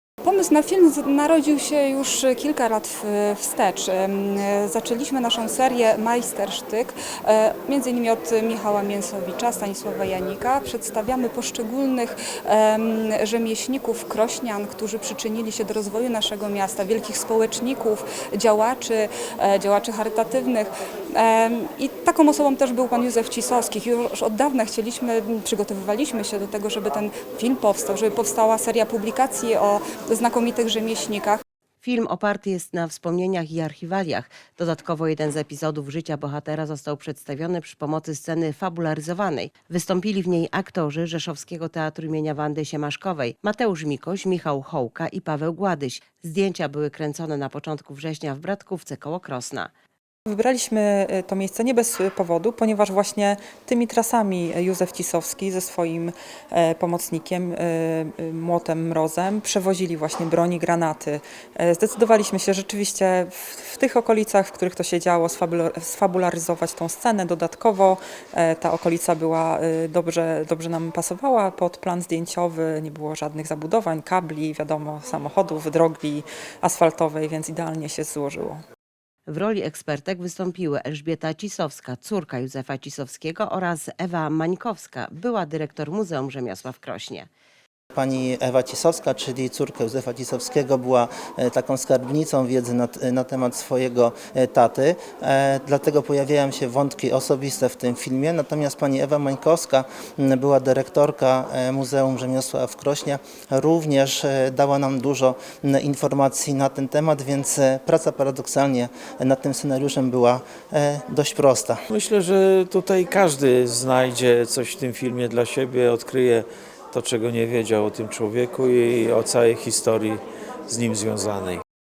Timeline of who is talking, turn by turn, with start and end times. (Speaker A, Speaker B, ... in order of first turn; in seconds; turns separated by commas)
Speaker A: 0.2-31.4, Speaker B: 31.8-49.7, Speaker C: 50.3-78.6, Speaker B: 79.3-87.3, Speaker D: 87.9-111.8, Speaker E: 111.9-121.6